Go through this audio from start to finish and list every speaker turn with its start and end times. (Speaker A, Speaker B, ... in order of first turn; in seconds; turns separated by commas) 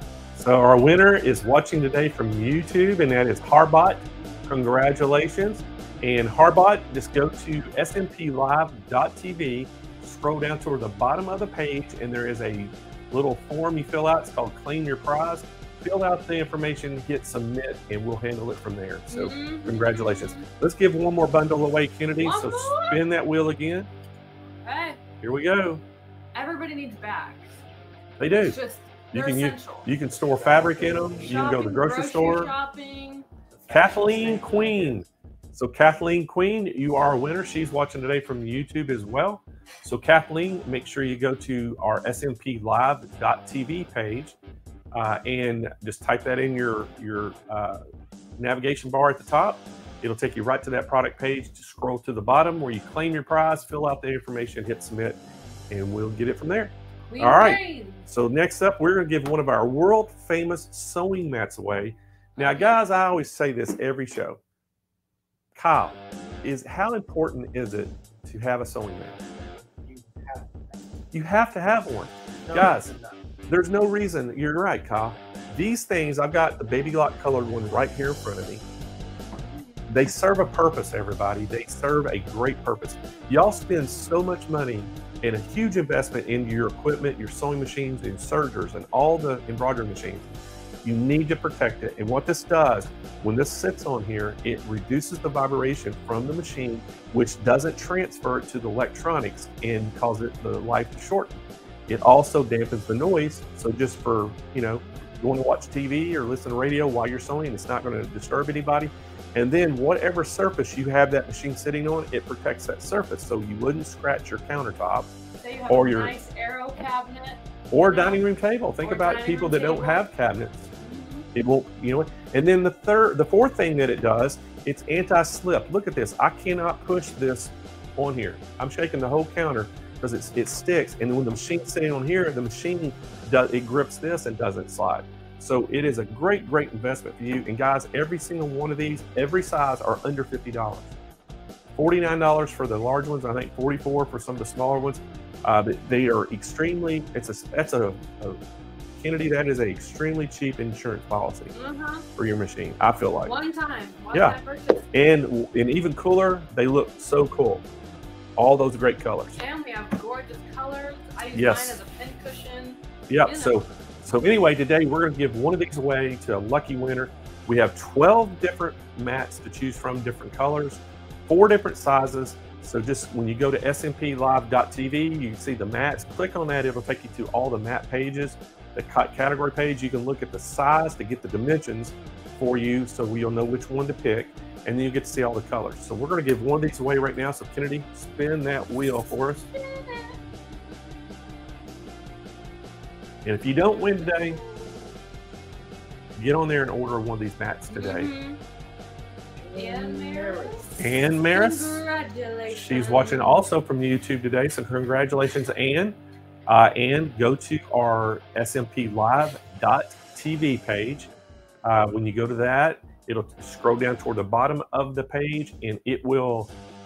Speaker A: 0.3-23.9, Speaker B: 19.1-20.5, Speaker B: 22.2-23.1, Speaker B: 24.6-25.0, Speaker A: 25.2-25.8, Speaker B: 26.3-27.6, Speaker A: 28.2-28.6, Speaker B: 28.3-29.9, Speaker A: 29.1-32.5, Speaker C: 30.5-31.1, Speaker B: 31.2-33.3, Speaker C: 33.6-35.0, Speaker A: 33.7-44.4, Speaker A: 44.9-47.8, Speaker A: 48.4-55.2, Speaker A: 55.7-64.4, Speaker B: 57.1-58.1, Speaker B: 62.4-62.8, Speaker A: 65.5-69.2, Speaker C: 69.8-70.8, Speaker A: 71.1-72.9, Speaker C: 72.5-73.2, Speaker A: 73.5-78.6, Speaker B: 79.5-79.8, Speaker A: 79.9-90.2, Speaker A: 90.8-101.4, Speaker A: 101.9-115.1, Speaker B: 115.4-118.2, Speaker A: 115.7-116.2, Speaker A: 117.7-120.7, Speaker B: 118.8-120.0, Speaker B: 120.8-121.3, Speaker A: 121.3-140.9, Speaker A: 141.8-148.4, Speaker A: 149.0-151.5, Speaker B: 151.5-152.1, Speaker A: 152.2-153.3, Speaker B: 153.2-154.9, Speaker A: 154.9-157.7, Speaker A: 158.4-159.4, Speaker B: 159.3-163.7, Speaker A: 161.3-161.8, Speaker A: 163.1-189.5, Speaker B: 189.6-190.2, Speaker A: 193.2-194.4, Speaker B: 193.9-194.9, Speaker A: 196.2-198.1, Speaker B: 197.7-198.4, Speaker C: 199.4-200.8, Speaker B: 199.5-203.4, Speaker A: 200.8-201.8, Speaker A: 202.5-206.0, Speaker A: 206.5-211.1, Speaker A: 211.6-216.5